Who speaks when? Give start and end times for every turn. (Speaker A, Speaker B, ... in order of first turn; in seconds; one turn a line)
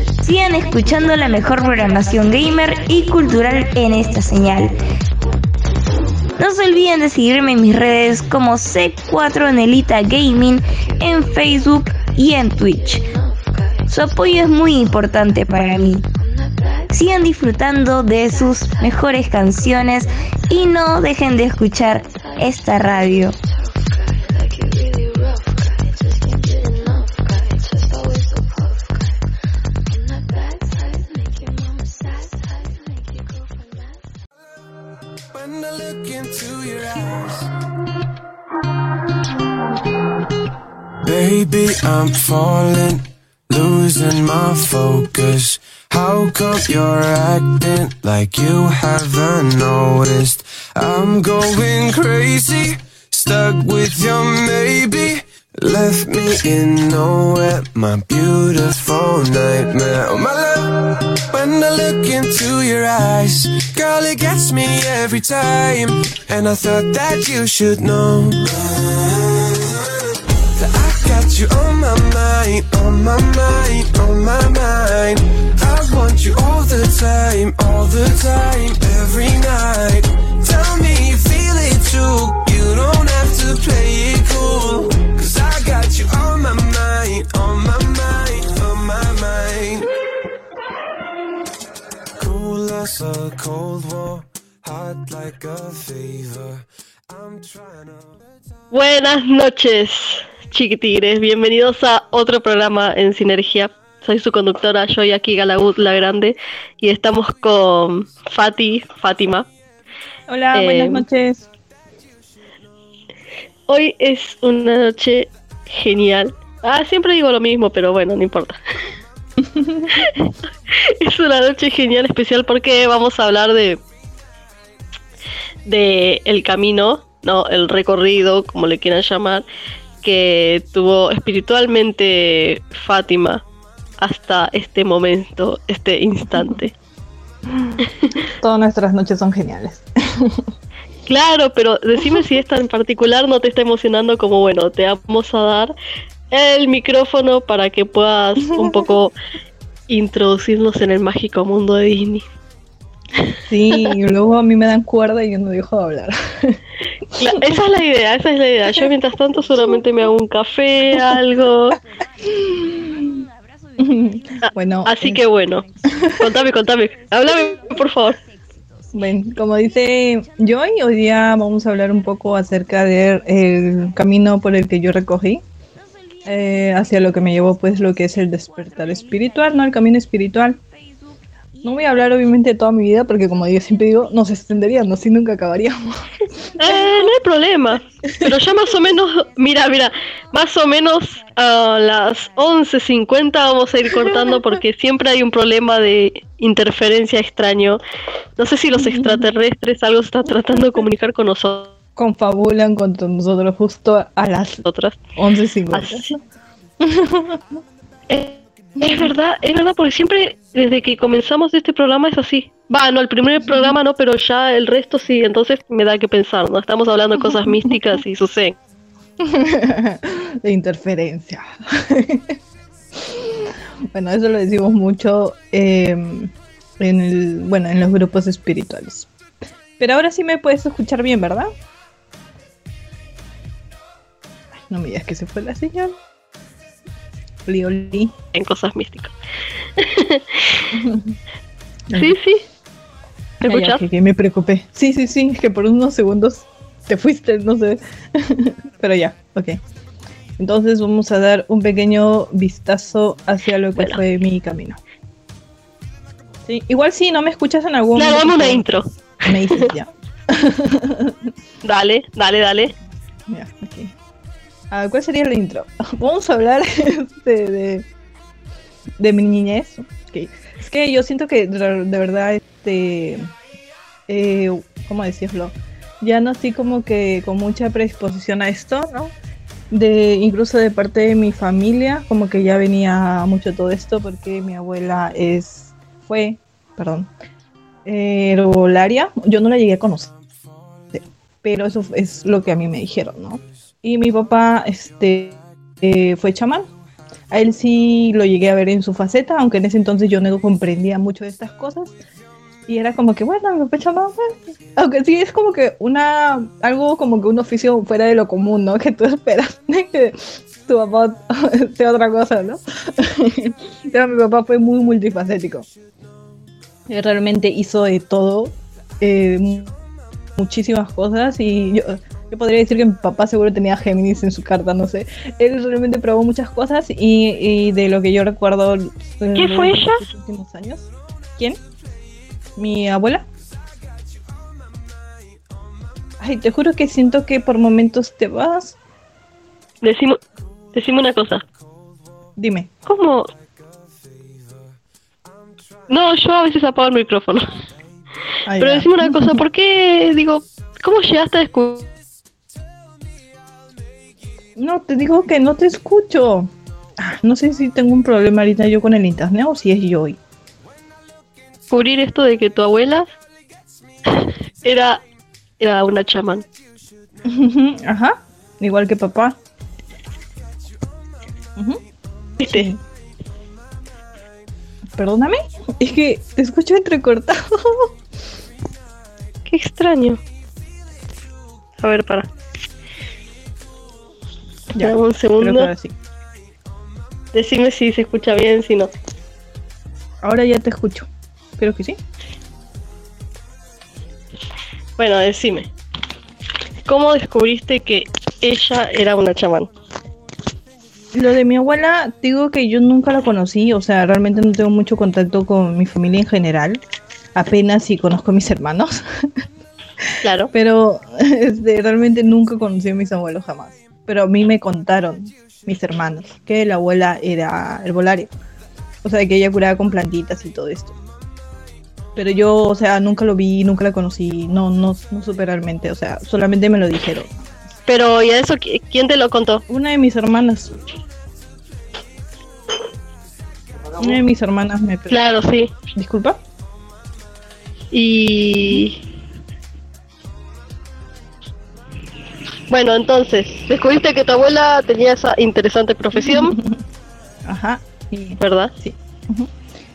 Speaker A: 0.2-4.8
Speaker A: 6.3-13.2
Speaker A: 13.8-16.1
Speaker A: 16.9-23.4
Speaker B: 35.3-37.5
Speaker B: 41.0-89.9
Speaker B: 92.2-98.1
Speaker C: 98.7-109.5
Speaker D: 110.3-111.5
Speaker C: 110.5-111.0
Speaker C: 113.7-118.6
Speaker D: 119.4-120.0
Speaker C: 119.9-123.8
Speaker C: 125.7-129.4
Speaker C: 130.0-133.4
Speaker C: 134.0-136.7
Speaker D: 137.4-140.5
Speaker C: 137.8-138.2
Speaker C: 141.1-145.7
Speaker C: 146.3-149.1
Speaker D: 148.5-148.8
Speaker C: 149.9-152.2
Speaker D: 153.3-156.6
Speaker C: 157.1-161.8
Speaker A: 162.2-164.5
Speaker D: 162.2-163.2
Speaker D: 163.8-165.2
Speaker C: 164.4-168.2
Speaker A: 165.6-169.6
Speaker D: 168.9-175.4
Speaker A: 175.8-179.9
Speaker D: 176.2-180.6
Speaker A: 180.6-182.5
Speaker D: 181.6-186.8
Speaker A: 183.1-184.9
Speaker C: 186.6-197.8
Speaker D: 188.1-188.3
Speaker A: 190.9-192.7
Speaker C: 198.4-201.8
Speaker D: 198.8-199.2
Speaker D: 201.9-204.6
Speaker C: 204.6-205.0
Speaker D: 205.2-206.1
Speaker C: 205.7-206.1
Speaker D: 206.8-207.4
Speaker C: 208.1-218.6
Speaker D: 208.8-209.1
Speaker D: 213.5-213.7
Speaker D: 219.2-222.4
Speaker D: 222.9-229.1
Speaker D: 229.8-231.5
Speaker D: 234.5-236.0
Speaker D: 237.4-238.1
Speaker C: 238.3-239.1
Speaker C: 239.8-240.8
Speaker D: 240.7-241.1
Speaker D: 241.9-242.2
Speaker C: 241.9-242.4
Speaker C: 243.4-243.8
Speaker D: 243.5-249.6
Speaker D: 250.4-254.8
Speaker D: 256.4-258.7
Speaker C: 257.9-259.7
Speaker D: 259.2-261.3
Speaker C: 261.6-262.7
Speaker D: 263.3-263.9
Speaker D: 264.7-267.9
Speaker D: 269.0-273.3
Speaker D: 274.1-279.1
Speaker D: 279.7-287.1
Speaker D: 287.8-290.1
Speaker D: 290.9-296.7
Speaker D: 297.3-302.0
Speaker D: 302.7-315.6
Speaker D: 316.9-319.7
Speaker D: 320.4-331.6
Speaker C: 329.3-330.0
Speaker D: 332.6-333.3
Speaker D: 336.2-338.8
Speaker C: 339.8-340.2
Speaker C: 340.7-341.4
Speaker D: 342.4-342.7
Speaker C: 342.9-343.3
Speaker B: 344.0-344.6
Speaker C: 345.9-347.4
Speaker D: 348.4-349.4
Speaker C: 348.6-351.9
Speaker D: 354.6-360.2
Speaker C: 361.7-363.1
Speaker C: 364.1-365.0
Speaker C: 365.6-366.4
Speaker D: 367.2-369.4
Speaker D: 371.6-371.8
Speaker C: 372.4-372.7
Speaker D: 372.4-372.8
Speaker D: 374.9-377.9
Speaker C: 379.5-380.2
Speaker C: 381.8-382.3
Speaker D: 384.7-385.9
Speaker C: 384.8-385.7
Speaker C: 387.3-388.9
Speaker D: 390.2-392.0
Speaker C: 395.0-395.7
Speaker C: 396.9-399.7
Speaker D: 401.1-406.8
Speaker D: 407.3-409.3
Speaker D: 410.0-418.3
Speaker C: 410.2-410.5
Speaker D: 419.0-420.9
Speaker D: 422.1-427.6
Speaker C: 427.9-429.6
Speaker D: 429.7-430.8
Speaker D: 434.0-435.2
Speaker C: 435.1-435.7
Speaker D: 435.9-436.4
Speaker C: 437.9-439.0
Speaker C: 442.7-446.6
Speaker D: 446.1-446.8
Speaker D: 447.4-449.5
Speaker C: 448.4-448.7